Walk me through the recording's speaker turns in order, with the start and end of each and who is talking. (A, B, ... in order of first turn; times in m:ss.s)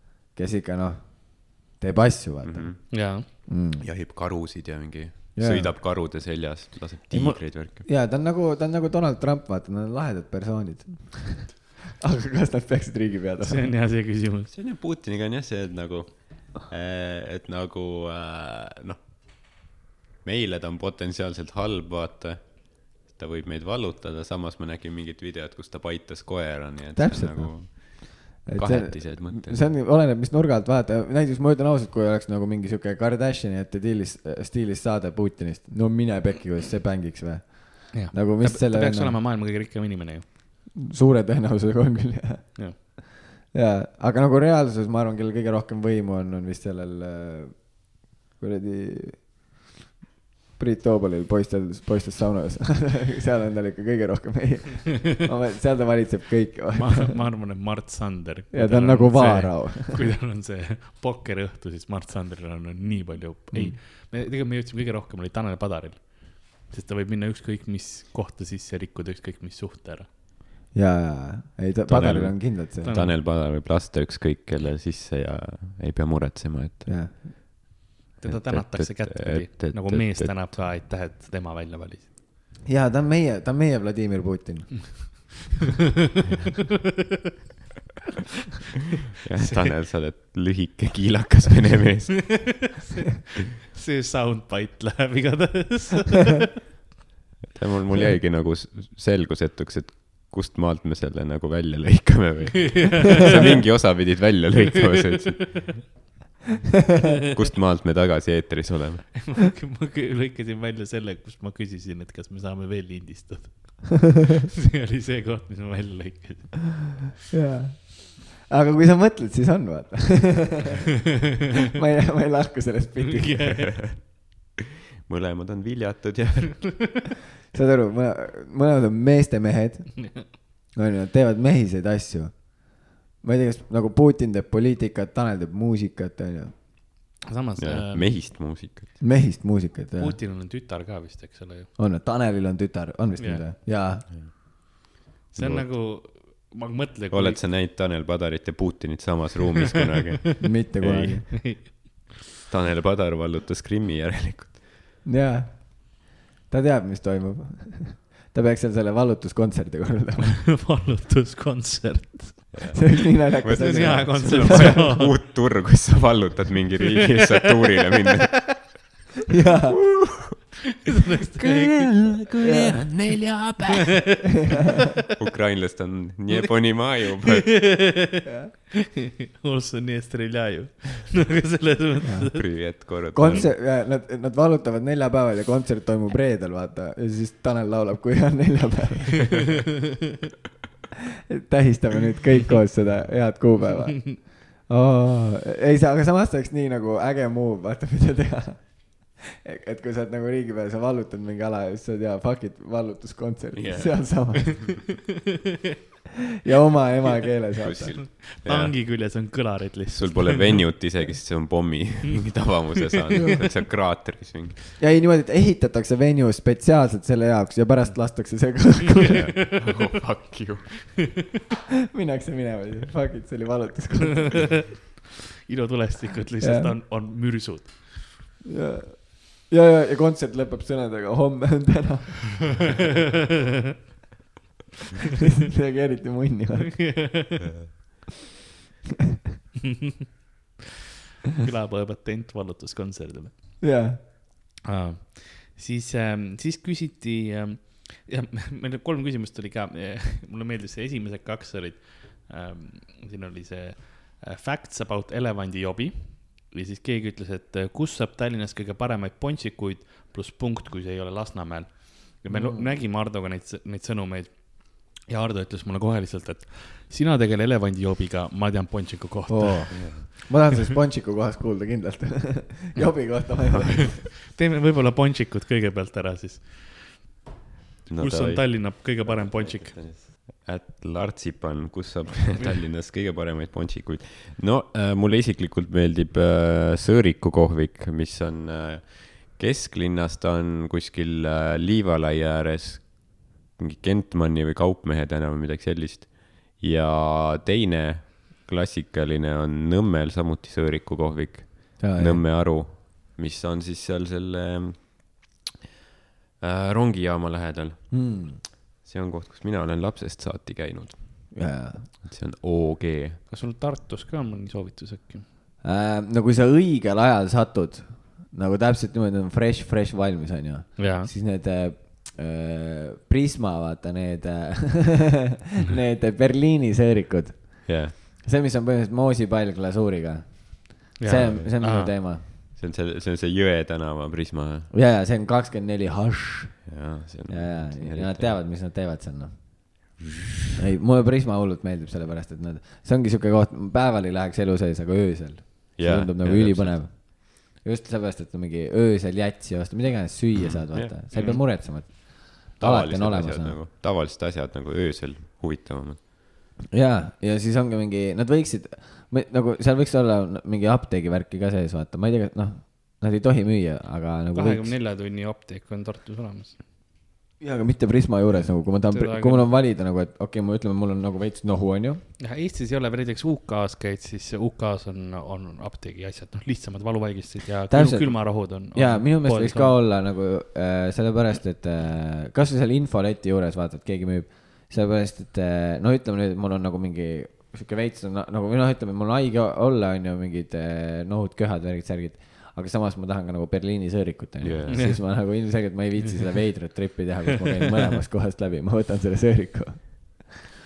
0:00.3-0:03.9 A
0:02.4-0:07.9 B
0:02.9-0:03.3 C
0:05.4-0:05.8 A
0:07.1-0:13.7 A
0:13.4-0:14.5 C
0:14.5-0:29.7 B
0:27.0-0:39.2 A
0:37.9-0:40.3 C
0:40.8-0:49.3 A
0:50.6-0:57.2 A
0:56.7-1:10.1 C
0:58.5-1:00.0 A
1:03.5-1:03.8 A
1:10.7-1:12.9 A
1:11.9-1:17.3 B
1:12.8-1:13.2 C
1:16.9-1:17.2 A
1:18.2-1:22.1 C
1:18.2-1:20.7 B
1:22.7-1:25.3 A
1:24.9-1:25.2 C
1:29.2-1:32.8 B
1:29.4-1:29.7 C
1:32.3-1:33.0 C
1:33.7-1:36.6 C
1:37.5-1:45.9 B
1:42.8-1:43.8 C
1:44.9-1:45.5 C
1:47.3-1:49.4 B
1:49.3-1:57.0 C
1:57.3-2:00.7 A
2:01.7-2:03.6 A
2:03.0-2:03.8 C
2:03.6-2:04.2 B
2:05.0-2:07.0 B
2:07.5-2:16.6 A
2:17.2-2:18.1 C
2:17.6-2:18.9 B
2:19.0-2:20.2 A
2:20.0-2:21.7 C
2:21.8-2:24.1 A
2:23.2-2:23.4 C
2:24.1-2:25.7 B
2:25.3-2:27.4 C
2:27.1-2:31.7 B
2:30.0-2:30.4 C
2:30.4-2:31.3 A
2:31.4-2:32.1 C
2:32.5-2:34.6 B
2:35.0-2:40.5 A
2:40.5-2:42.8 C
2:42.5-2:48.9 B
2:42.7-2:44.8 A
2:43.5-2:45.2 C
2:49.3-2:49.8 A
2:49.9-2:50.3 B
2:50.8-2:52.2 C
2:51.4-2:54.3 B
2:52.4-2:52.8 A
2:55.1-2:57.6 B
2:56.3-3:02.8 C
2:58.2-2:58.5 A
3:02.0-3:09.5 A
3:02.4-3:03.5 B
3:11.3-3:24.7 A
3:23.5-3:24.5 B
3:26.4-3:28.0 A
3:27.6-3:29.3 B
3:28.0-3:30.6 C
3:29.9-3:34.6 B
3:34.8-3:39.2 A
3:37.8-3:38.5 C
3:39.1-3:41.1 B
3:41.9-3:44.6 A
3:45.5-3:48.1 C
3:46.4-3:46.8 A
3:48.5-3:52.7 A
3:55.4-3:57.0 A
3:56.8-3:57.4 C
3:57.4-3:57.7 B
4:01.4-4:03.8 C
4:03.6-4:04.0 A
4:04.6-4:30.1 C
4:22.3-4:22.8 A
4:29.3-4:34.1 A
4:29.7-4:30.0 B
4:33.5-4:37.2 C
4:37.9-5:05.3 B
4:38.0-4:39.8 C
5:01.8-5:02.2 A
5:06.4-5:13.2 B
5:07.9-5:08.4 A
5:11.3-5:11.9 A
5:13.3-5:15.3 C
5:15.6-5:32.3 A
5:20.8-5:21.1 C
5:27.7-5:28.0 B
5:31.0-5:31.9 C
5:31.2-5:34.7 B
5:34.7-5:39.5 A
5:36.7-5:38.4 B
5:40.6-5:53.6 A
5:45.8-5:46.8 B
5:50.4-5:51.2 B
5:51.1-5:51.4 C
5:52.6-5:56.0 B
5:56.7-6:04.8 A
6:04.3-6:06.6 C
6:07.4-6:12.0 A
6:08.9-6:09.5 C
6:12.2-6:19.8 C
6:17.7-6:40.3 A
6:34.4-6:34.9 B
6:34.7-6:35.0 C